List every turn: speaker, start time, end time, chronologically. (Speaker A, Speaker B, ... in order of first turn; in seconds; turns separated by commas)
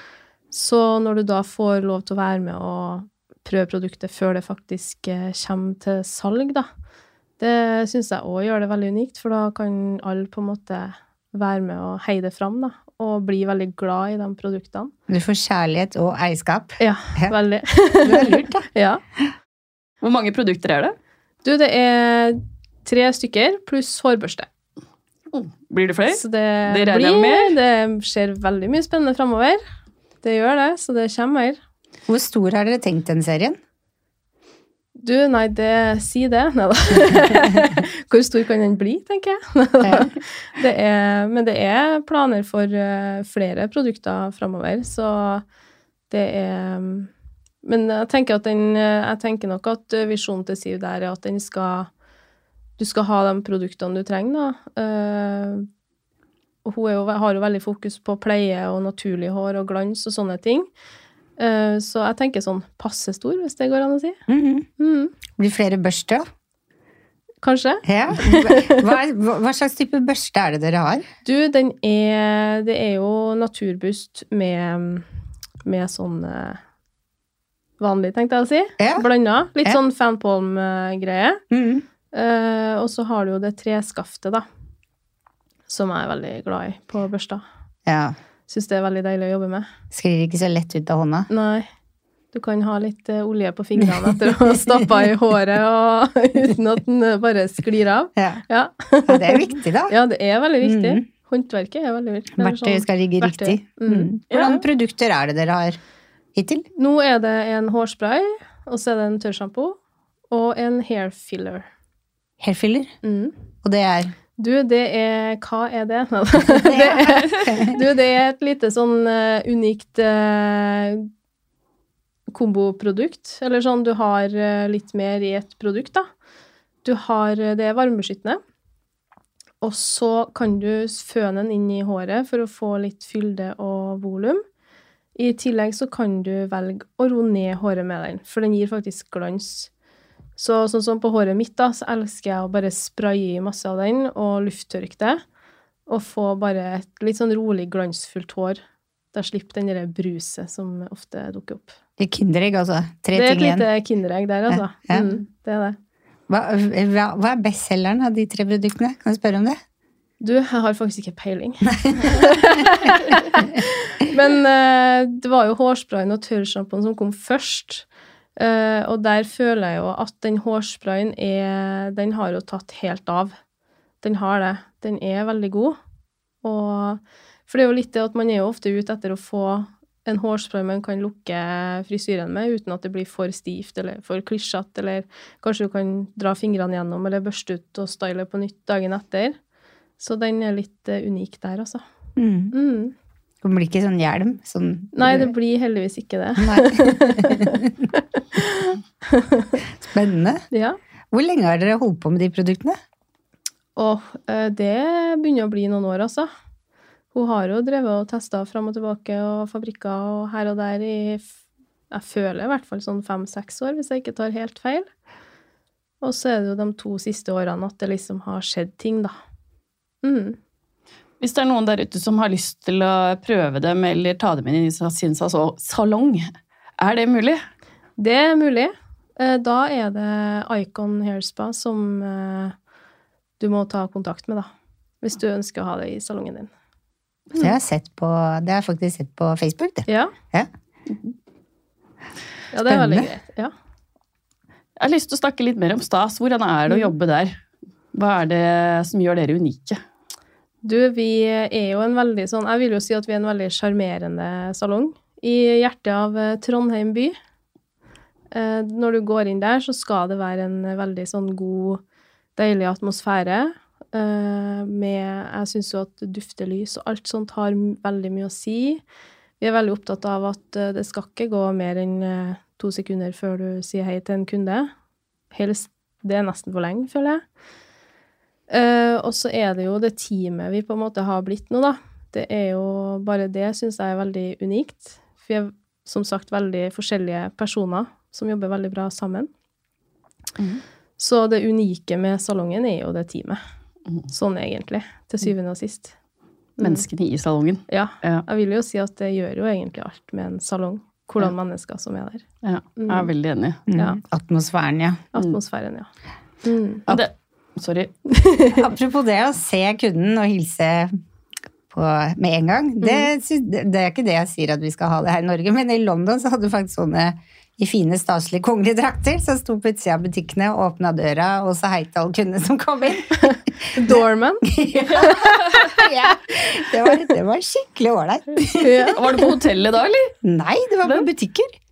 Speaker A: 0.5-6.7, Speaker A: 7.4-14.9, Speaker B: 15.1-17.3, Speaker A: 16.8-19.0, Speaker B: 18.0-18.6, Speaker C: 20.0-20.9, Speaker A: 21.4-24.5, Speaker C: 25.3-27.6, Speaker A: 26.1-29.6, Speaker A: 30.2-31.6, Speaker B: 32.1-33.6, Speaker A: 35.0-45.4, Speaker B: 39.8-40.1, Speaker A: 46.1-47.1, Speaker A: 47.6-51.9, Speaker A: 52.8-55.7, Speaker A: 56.6-60.7, Speaker A: 61.4-64.2, Speaker B: 64.3-64.7, Speaker A: 64.8-65.1, Speaker B: 65.4-66.2, Speaker A: 67.4-68.9, Speaker B: 67.8-71.0, Speaker A: 71.2-75.0, Speaker A: 75.6-76.6, Speaker A: 77.8-81.4, Speaker B: 78.8-79.1, Speaker B: 81.5-81.8, Speaker A: 82.1-84.4, Speaker A: 85.7-87.4, Speaker B: 87.8-88.2, Speaker A: 88.5-89.7, Speaker B: 89.9-91.3, Speaker A: 91.3-91.7, Speaker A: 92.3-104.5, Speaker B: 93.8-94.5, Speaker B: 98.2-98.4, Speaker B: 99.0-100.0, Speaker B: 100.6-101.0, Speaker B: 102.4-105.8, Speaker C: 104.3-104.6, Speaker B: 106.3-106.7, Speaker A: 106.8-109.8, Speaker A: 110.3-111.7, Speaker B: 112.4-112.9, Speaker A: 113.0-113.3, Speaker B: 113.6-114.1, Speaker A: 114.4-121.1, Speaker B: 116.5-117.8, Speaker A: 122.3-126.1, Speaker A: 126.8-128.4, Speaker A: 129.6-134.4, Speaker A: 135.2-139.7, Speaker A: 140.4-145.2, Speaker A: 145.9-148.6, Speaker A: 149.1-151.8, Speaker B: 152.0-153.7, Speaker A: 153.1-155.8, Speaker B: 154.5-155.1, Speaker B: 156.3-159.6, Speaker A: 160.2-167.8, Speaker B: 161.8-162.6, Speaker A: 168.4-173.3, Speaker A: 174.0-175.8, Speaker A: 176.4-189.4, Speaker A: 190.0-191.8, Speaker B: 192.2-192.5, Speaker A: 192.5-192.9, Speaker B: 193.4-195.3, Speaker A: 194.9-199.6, Speaker B: 196.4-197.7, Speaker B: 199.8-200.4, Speaker A: 200.5-200.8, Speaker B: 201.1-202.8, Speaker A: 203.8-206.3, Speaker A: 207.1-211.3, Speaker A: 211.9-214.9, Speaker A: 216.0-219.1, Speaker A: 220.0-220.4, Speaker C: 221.2-227.4, Speaker A: 228.0-232.5, Speaker A: 233.4-234.5, Speaker A: 235.0-236.5, Speaker B: 237.3-240.5, Speaker A: 239.9-240.1, Speaker A: 242.5-243.5, Speaker B: 242.7-243.1, Speaker C: 244.8-247.4, Speaker C: 247.9-249.8, Speaker A: 250.6-257.1, Speaker A: 258.3-261.8, Speaker A: 262.4-268.8, Speaker A: 269.4-274.7, Speaker A: 275.3-277.2, Speaker A: 278.5-289.3, Speaker A: 291.0-293.4, Speaker A: 294.1-295.9, Speaker C: 296.6-298.2, Speaker A: 297.7-302.2, Speaker C: 302.4-303.6, Speaker A: 302.8-303.1, Speaker B: 303.7-305.0, Speaker A: 305.1-305.9, Speaker A: 306.4-306.9, Speaker C: 306.9-307.9, Speaker A: 308.1-308.6, Speaker B: 308.5-310.9, Speaker B: 311.7-329.0, Speaker A: 312.8-313.1, Speaker A: 323.2-325.9, Speaker A: 328.5-329.2, Speaker C: 328.9-330.1, Speaker B: 330.2-331.5